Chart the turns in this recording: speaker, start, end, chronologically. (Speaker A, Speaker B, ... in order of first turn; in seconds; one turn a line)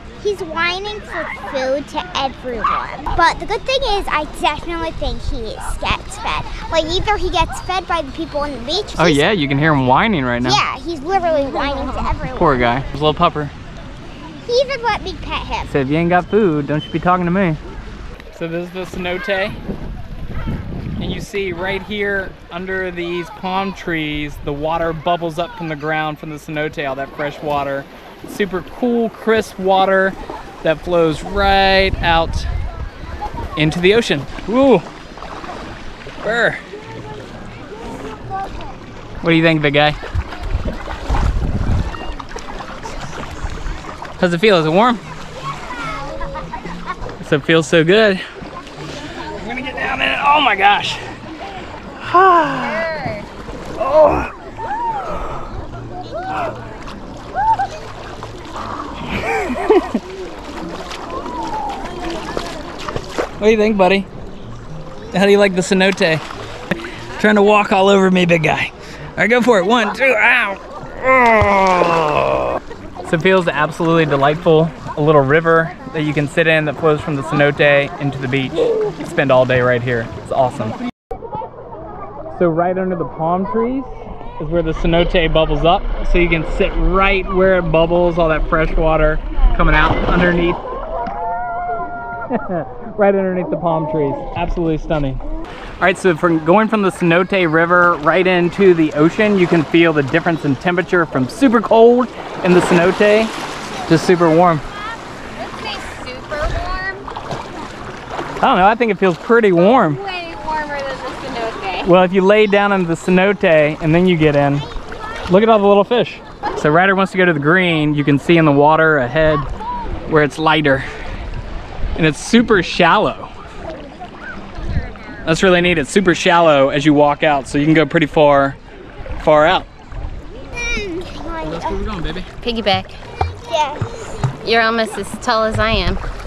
Speaker A: 0.2-9.2
Speaker B: 8.9-10.6
Speaker A: 10.4-12.8
Speaker B: 12.3-13.5
Speaker A: 14.4-15.7
Speaker B: 15.7-17.6
Speaker B: 18.3-19.6
Speaker B: 21.0-32.5
Speaker B: 33.5-34.9
Speaker B: 36.2-36.6
Speaker B: 39.2-40.0
Speaker B: 44.2-45.0
Speaker B: 47.2-48.2
Speaker B: 49.3-51.0
Speaker B: 51.9-52.9
Speaker C: 52.6-53.2
Speaker B: 53.8-54.3
Speaker B: 59.1-60.0
Speaker B: 63.4-64.1
Speaker B: 65.1-66.2
Speaker B: 67.2-80.8
Speaker B: 82.3-90.6
Speaker B: 92.3-95.2
Speaker B: 95.8-103.3
Speaker B: 103.8-104.6
Speaker C: 105.3-107.1
Speaker B: 108.4-110.0
Speaker C: 109.5-111.9
Speaker B: 111.8-114.7
Speaker B: 115.3-119.5
Speaker B: 120.1-120.9
Speaker B: 122.0-123.3
Speaker B: 125.2-128.6
Speaker B: 129.2-129.7
Speaker A: 130.6-131.8
Speaker B: 131.4-132.3
Speaker C: 132.4-133.0
Speaker A: 133.2-134.3
Speaker C: 134.4-136.0